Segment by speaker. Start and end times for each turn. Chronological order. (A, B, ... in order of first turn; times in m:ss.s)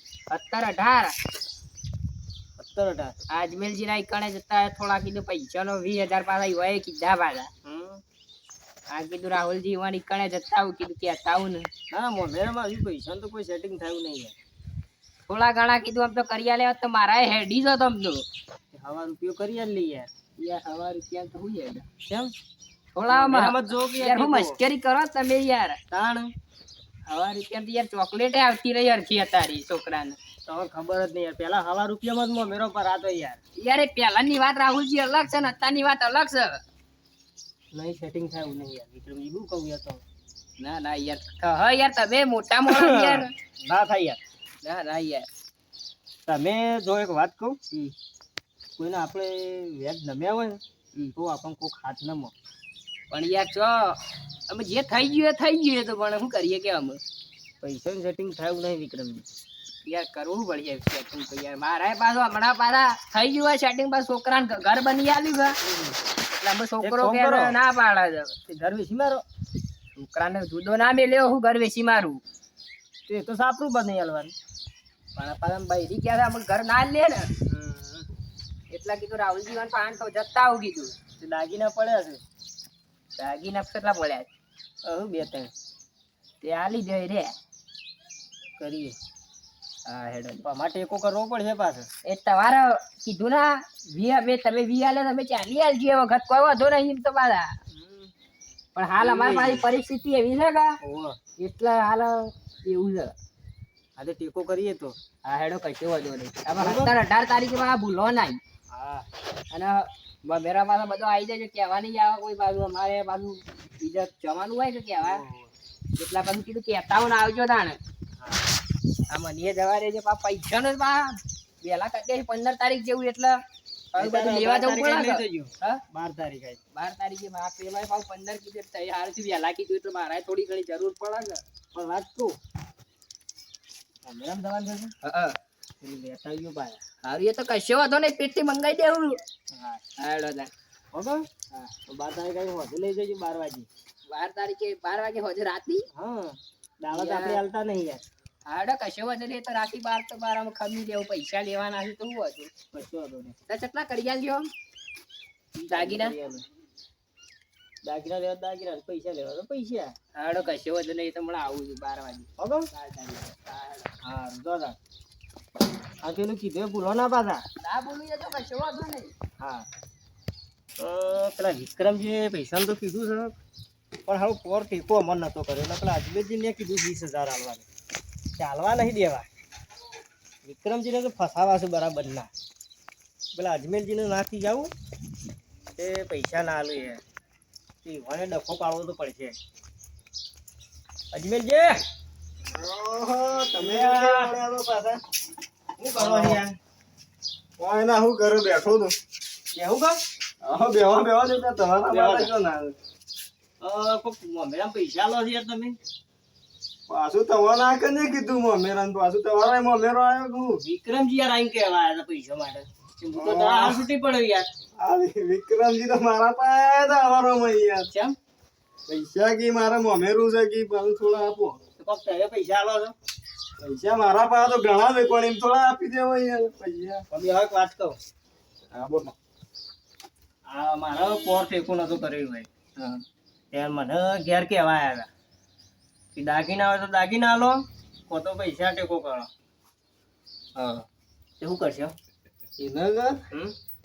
0:00.3-0:01.2 A
0:02.6-0:03.1 B
0:03.3-0:07.5 A
0:07.6-0:08.0 B
0:08.9-0:11.7 A
0:11.9-0:14.3 B
0:15.3-0:18.2 A
0:18.7-0:20.1 B
0:20.4-0:21.9 A
0:22.0-0:22.3 B
0:23.0-0:25.8 A
0:23.1-0:24.6 B
0:25.9-0:26.3 B
0:27.1-0:30.2 A
0:30.5-0:33.4 B
0:33.6-0:36.6 A
0:37.7-0:40.0 B
0:40.6-0:43.3 A
0:42.7-0:44.2 B
0:44.6-0:45.3 A
0:46.2-0:47.7 B
0:48.8-0:50.6 B
0:51.2-0:52.3 B
0:53.1-0:57.0 A
0:57.6-0:59.2 B
0:59.8-1:05.6 A
1:05.6-1:06.0 B
1:06.4-1:08.3 A
1:06.8-1:07.6 B
1:08.5-1:09.2 B
1:09.9-1:12.2 A
1:13.1-1:14.3 B
1:15.2-1:17.3 A
1:17.4-1:18.1 B
1:18.7-1:21.0 A
1:21.2-1:22.2 B
1:23.2-1:24.3 A
1:24.8-1:25.5 B
1:26.4-1:27.3 A
1:28.6-1:29.0 B
1:29.8-1:30.4 A
1:30.4-1:31.9 B
1:32.0-1:37.5 A
1:37.7-1:38.1 B
1:38.8-1:40.8 A
1:39.0-1:39.6 B
1:40.8-1:41.2 B
1:41.4-1:43.1 A
1:44.0-1:45.0 B
1:45.2-1:48.4 A
1:46.6-1:46.9 B
1:48.7-1:49.1 B
1:49.5-1:55.2 A
1:55.0-1:55.5 B
1:56.0-1:57.8 A
1:58.2-1:58.5 B
1:59.1-2:03.4 A
2:03.9-2:05.8 A
2:04.0-2:06.6 B
2:06.7-2:11.4 A
2:11.7-2:12.4 B
2:14.0-2:14.9 B
2:15.0-2:15.4 A
2:15.8-2:16.8 B
2:17.0-2:19.2 A
2:19.5-2:19.8 B
2:20.0-2:20.5 A
2:20.9-2:23.7 B
2:24.1-2:25.8 A
2:25.9-2:28.0 B
2:26.9-2:27.4 A
2:28.5-2:32.5 A
2:32.7-2:33.4 B
2:33.5-2:34.5 A
2:35.6-2:36.4 B
2:35.7-2:36.1 A
2:37.8-2:39.9 B
2:40.1-2:43.9 A
2:42.4-2:42.7 B
2:44.0-2:44.8 B
2:46.0-2:47.4 B
2:47.6-2:49.1 A
2:49.4-2:49.7 B
2:50.8-2:53.3 B
2:54.0-2:57.6 B
2:58.4-2:59.3 B
3:00.4-3:02.3 B
3:03.3-3:04.7 B
3:05.8-3:07.0 B
3:07.8-3:09.4 B
3:11.1-3:11.8 B
3:12.4-3:15.0 C
3:13.6-3:14.3 B
3:15.8-3:16.6 B
3:15.9-3:16.4 C
3:17.6-3:18.9 C
3:19.5-3:20.0 B
3:20.4-3:22.8 C
3:21.9-3:22.3 B
3:23.6-3:25.8 B
3:26.9-3:30.6 C
3:30.6-3:34.5 B
3:33.1-3:33.8 C
3:34.8-3:37.9 C
3:37.9-3:38.2 B
3:38.9-3:41.6 C
3:41.8-3:42.9 B
3:43.6-3:47.0 C
3:47.1-3:48.0 B
3:48.7-3:49.1 C
3:50.5-3:52.5 B
3:53.5-3:55.1 B
3:56.1-3:59.3 B
4:00.6-4:00.8 B
4:01.4-4:01.9 B
4:02.6-4:03.2 C